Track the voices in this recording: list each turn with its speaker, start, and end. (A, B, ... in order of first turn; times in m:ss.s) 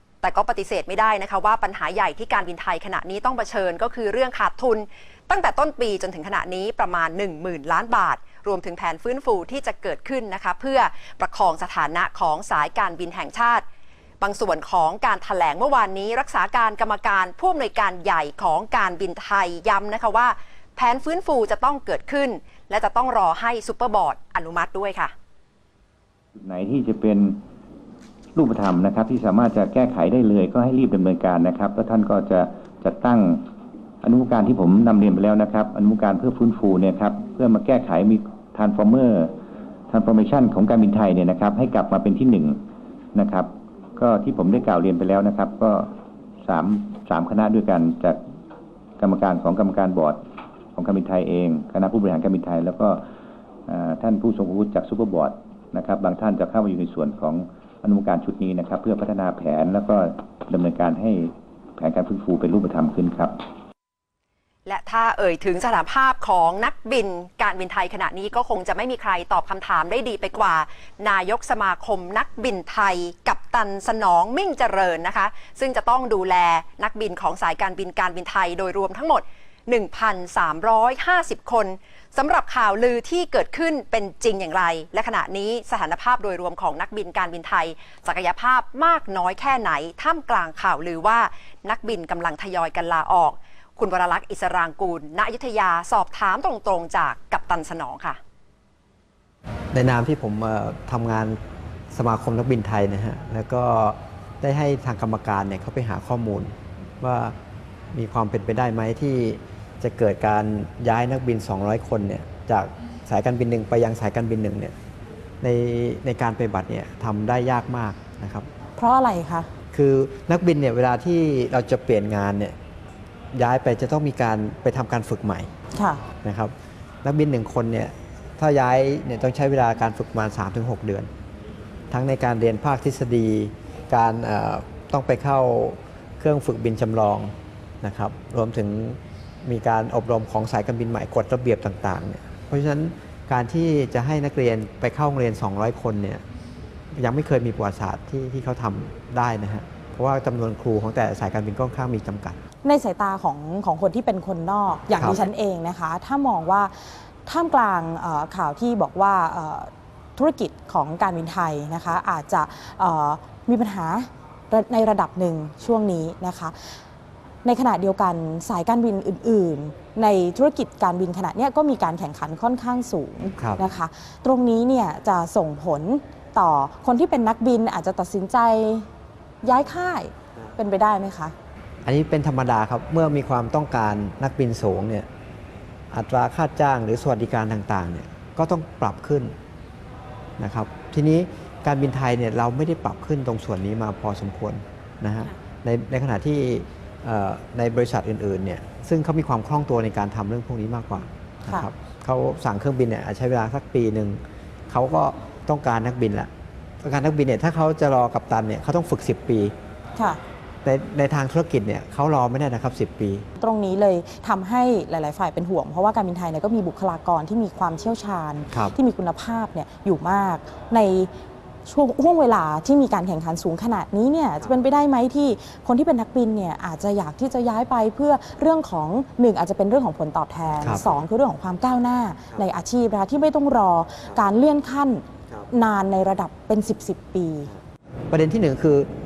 0:00.2-0:13.6 A
0:14.2-0:25.1 A
0:26.4-0:27.4 B
0:28.3-0:33.5 B
0:34.0-0:39.4 B
0:39.9-0:48.2 B
0:49.0-0:50.2 B
0:50.7-0:53.0 B
0:53.7-1:03.5 B
1:04.6-1:38.2 A
1:39.7-1:41.4 C
1:41.9-1:47.3 C
1:47.9-1:54.7 C
1:55.4-1:58.5 C
1:58.8-1:59.5 D
1:59.7-2:02.5 C
2:03.3-2:05.5 C
2:05.7-2:06.0 D
2:06.2-2:11.1 C
2:11.9-2:26.2 C
2:26.9-2:32.4 C
2:32.6-2:46.7 D
2:35.0-2:35.2 C
2:47.4-2:58.9 D
2:53.4-2:53.6 C
2:59.4-3:01.3 D
3:01.8-3:05.1 C
3:05.9-3:09.3 C
3:10.4-3:26.3 C
3:26.8-3:29.5 C
3:30.6-3:33.2 C
3:33.4-3:41.1 D
3:38.5-3:38.8 C
3:41.6-3:57.5 D
3:50.6-3:50.9 C
3:58.1-3:58.9 C